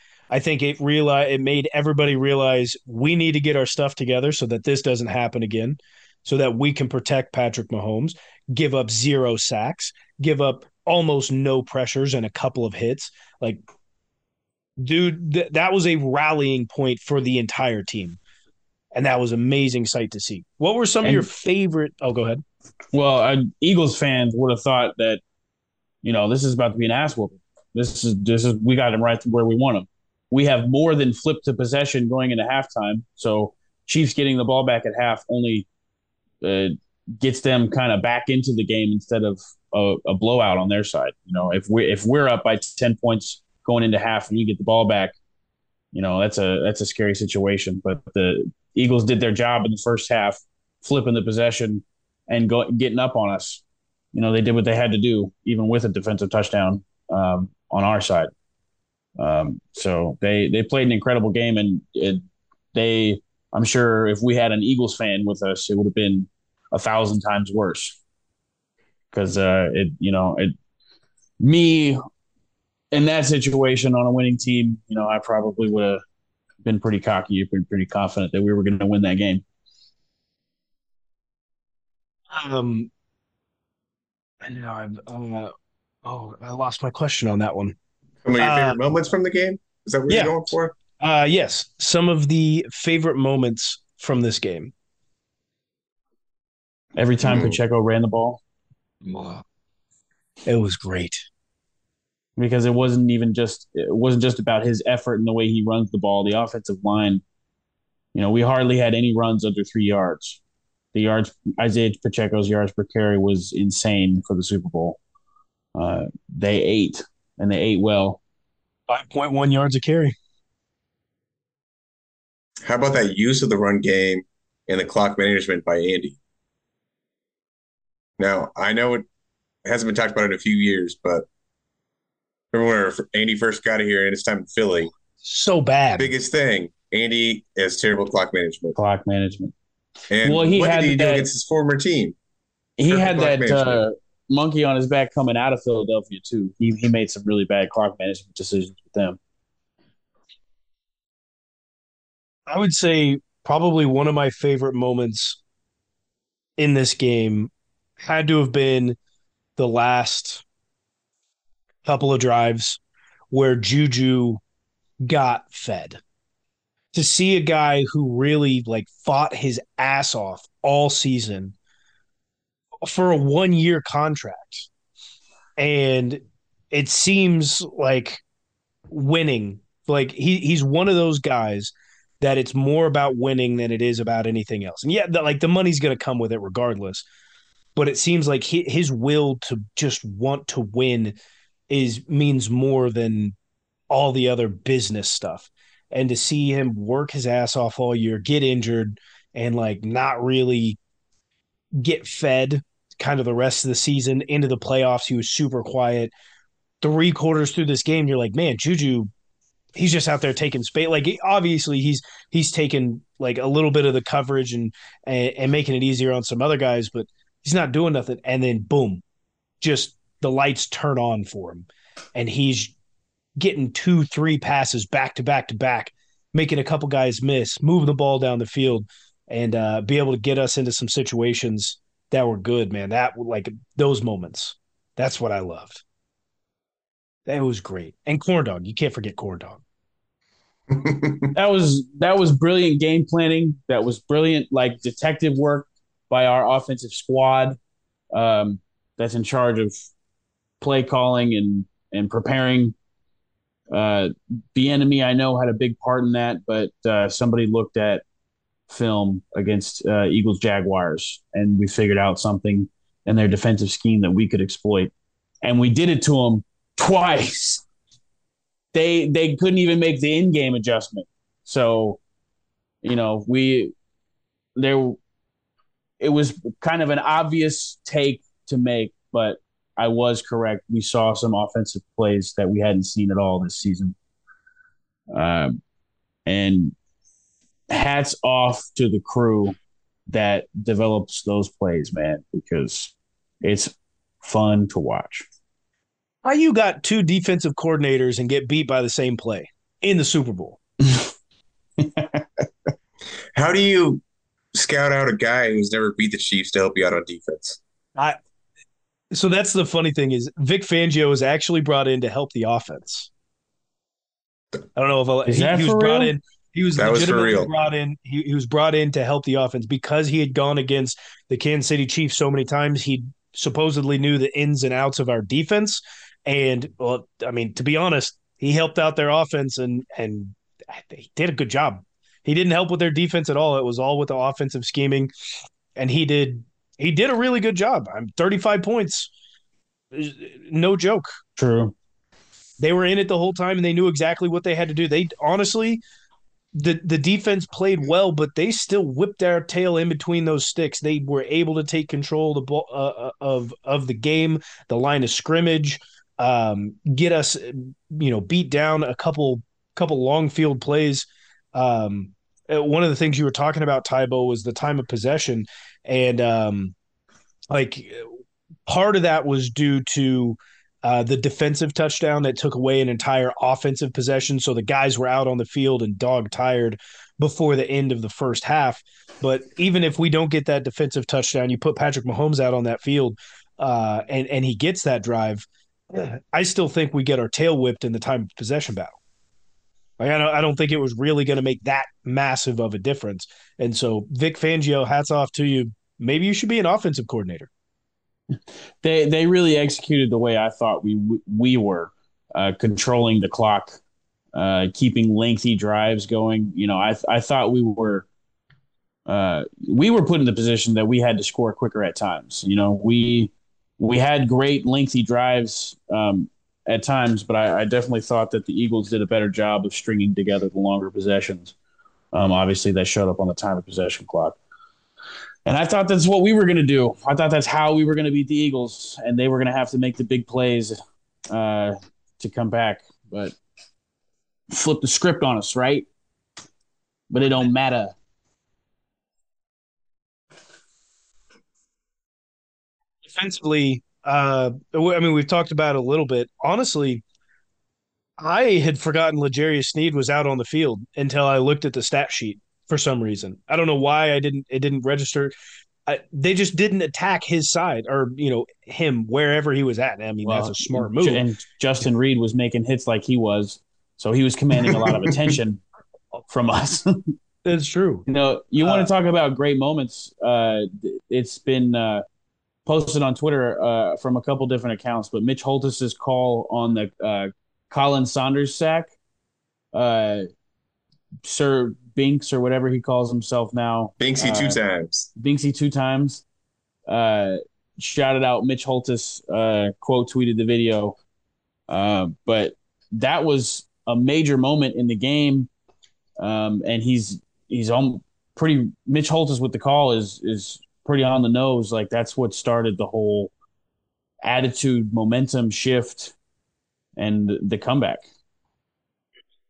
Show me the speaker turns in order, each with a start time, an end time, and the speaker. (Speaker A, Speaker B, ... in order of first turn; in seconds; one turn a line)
Speaker A: 0.3-13.6
Speaker A: 14.8-18.2
Speaker A: 18.9-22.4
Speaker B: 22.9-25.2
Speaker B: 26.0-35.7
Speaker B: 36.4-45.1
Speaker B: 45.9-58.3
Speaker B: 59.2-68.0
Speaker B: 69.1-70.5
Speaker B: 71.4-72.0
Speaker B: 72.9-76.0
Speaker B: 76.6-79.4
Speaker A: 82.3-82.9
Speaker A: 84.4-85.5
Speaker A: 86.0-87.8
Speaker C: 88.2-90.8
Speaker A: 88.4-88.8
Speaker A: 90.1-94.7
Speaker B: 97.0-98.4
Speaker C: 97.2-97.6
Speaker A: 99.0-99.4
Speaker A: 100.5-101.2
Speaker B: 102.4-107.2
Speaker B: 108.1-110.4
Speaker B: 110.9-115.0
Speaker B: 115.8-118.2
Speaker A: 118.9-120.2
Speaker C: 122.6-126.2
Speaker C: 128.2-129.0
Speaker C: 129.7-131.2
Speaker C: 132.5-134.9
Speaker A: 135.2-136.1
Speaker C: 136.0-138.8
Speaker B: 138.8-139.5
Speaker C: 140.1-142.2
Speaker B: 140.2-141.3
Speaker B: 142.8-149.2
Speaker C: 142.9-143.8
Speaker A: 152.5-155.4
Speaker A: 156.6-159.0
Speaker A: 159.6-160.4
Speaker A: 161.8-162.8
Speaker A: 163.3-164.4
Speaker A: 165.0-166.0
Speaker A: 166.9-171.6
Speaker A: 172.8-174.7
Speaker A: 175.6-178.2
Speaker A: 178.9-187.1
Speaker A: 187.8-191.2
Speaker A: 191.7-193.3
Speaker A: 193.9-200.8
Speaker A: 201.8-206.1
Speaker A: 206.8-209.1
Speaker A: 209.8-219.0
Speaker A: 219.6-222.8
Speaker A: 223.4-235.8
Speaker A: 237.2-239.6
Speaker C: 240.7-241.3
Speaker B: 241.3-247.6
Speaker B: 248.1-249.7
Speaker B: 250.6-252.8
Speaker B: 253.7-258.0
Speaker B: 258.7-264.9
Speaker B: 265.4-267.6
Speaker B: 268.7-272.0
Speaker B: 272.8-273.7
Speaker B: 274.6-275.0
Speaker B: 276.0-283.9
Speaker B: 285.1-285.6
Speaker B: 286.2-286.8
Speaker B: 287.7-289.6
Speaker B: 290.1-295.2
Speaker A: 296.2-300.6
Speaker B: 301.8-302.2
Speaker C: 303.4-304.0
Speaker C: 304.5-307.6
Speaker A: 309.1-313.1
Speaker A: 314.8-335.1
Speaker B: 315.2-316.2
Speaker C: 316.8-317.5
Speaker A: 335.8-339.1
Speaker A: 339.9-341.1
Speaker B: 341.4-341.7
Speaker A: 342.6-345.8
Speaker A: 346.5-366.7
Speaker A: 367.5-368.1
Speaker A: 368.7-389.0
Speaker A: 390.0-397.5
Speaker B: 398.8-403.8
Speaker B: 404.3-408.1
Speaker B: 409.1-421.5
Speaker B: 422.1-424.4
Speaker B: 425.4-430.8
Speaker B: 431.3-433.4
Speaker B: 434.5-435.9
Speaker B: 437.1-437.9
Speaker A: 443.0-447.0
Speaker A: 448.2-455.3
Speaker A: 455.9-461.2
Speaker B: 460.2-465.6
Speaker C: 464.7-465.1
Speaker B: 466.3-467.1
Speaker A: 467.4-468.0
Speaker B: 468.1-472.0
Speaker A: 468.6-468.9
Speaker B: 472.7-478.9
Speaker B: 479.7-480.3
Speaker B: 481.2-484.6
Speaker C: 484.0-485.1
Speaker B: 485.2-486.2
Speaker B: 486.9-491.0
Speaker B: 491.7-495.5
Speaker B: 496.2-503.3
Speaker B: 504.2-506.1
Speaker B: 507.0-508.0